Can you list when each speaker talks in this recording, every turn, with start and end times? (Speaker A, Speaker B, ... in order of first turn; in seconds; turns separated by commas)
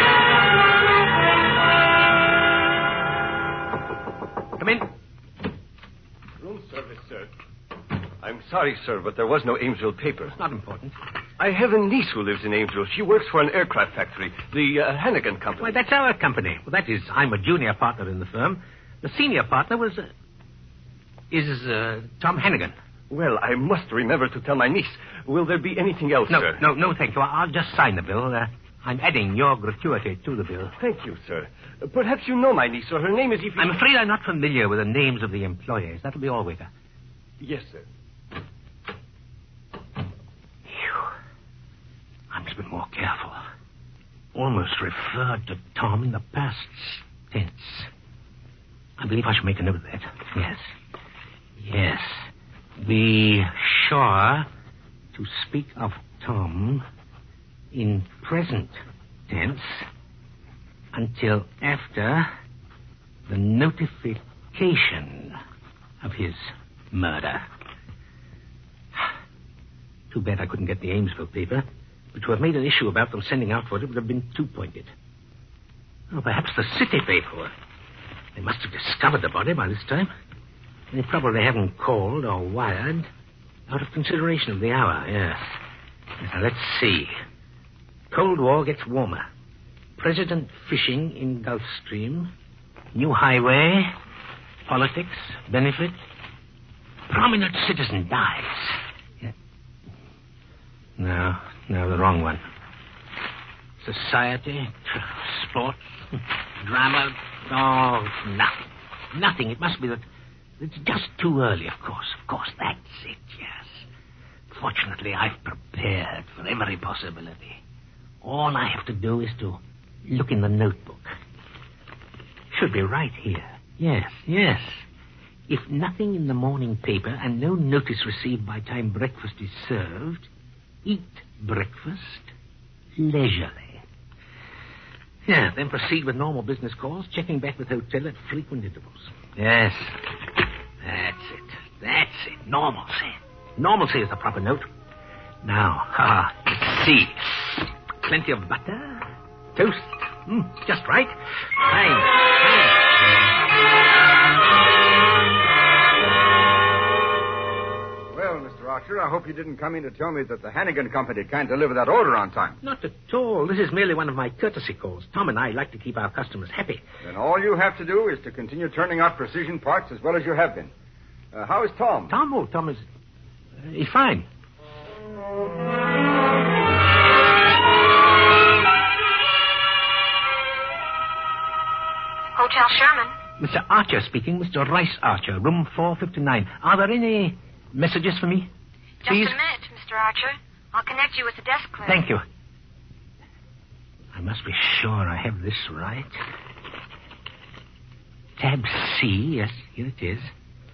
Speaker A: 4.6-4.9, Speaker B: 6.4-7.3, Speaker B: 8.2-10.3, Speaker A: 10.3-10.9, Speaker B: 11.4-15.8, Speaker A: 15.6-20.1, Speaker A: 21.3-22.8, Speaker B: 23.1-26.6, Speaker A: 26.3-30.8, Speaker B: 30.8-33.8, Speaker A: 33.6-36.7, Speaker B: 37.4-37.9, Speaker A: 40.7-41.0, Speaker A: 42.3-43.4, Speaker A: 44.3-47.9, Speaker A: 49.0-50.7, Speaker A: 51.6-54.5, Speaker A: 55.1-56.8, Speaker A: 57.7-59.9, Speaker A: 60.9-62.3, Speaker A: 63.3-65.4, Speaker A: 66.0-67.5, Speaker A: 70.1-74.9, Speaker A: 76.1-77.5, Speaker A: 78.3-80.1, Speaker A: 80.9-83.1, Speaker A: 83.7-85.6, Speaker A: 86.2-87.1, Speaker A: 88.1-89.3, Speaker A: 90.0-92.3, Speaker A: 92.9-94.0, Speaker A: 94.7-96.0, Speaker A: 97.1-99.3, Speaker A: 101.0-102.4, Speaker A: 103.8-110.0, Speaker A: 110.6-113.9, Speaker A: 114.5-117.6, Speaker A: 118.2-121.2, Speaker A: 122.5-124.9, Speaker A: 125.5-130.3, Speaker A: 130.8-132.3, Speaker A: 132.9-133.8, Speaker A: 135.2-140.2, Speaker A: 140.8-144.7, Speaker A: 145.4-152.9, Speaker C: 158.1-162.6, Speaker A: 162.6-166.8, Speaker C: 167.0-170.7, Speaker C: 171.3-172.1, Speaker A: 172.1-172.8, Speaker A: 173.6-174.3, Speaker D: 182.3-183.2, Speaker A: 183.4-188.5, Speaker D: 189.0-192.0, Speaker A: 189.1-189.3, Speaker A: 191.8-192.2, Speaker A: 194.1-196.2, Speaker A: 198.4-200.3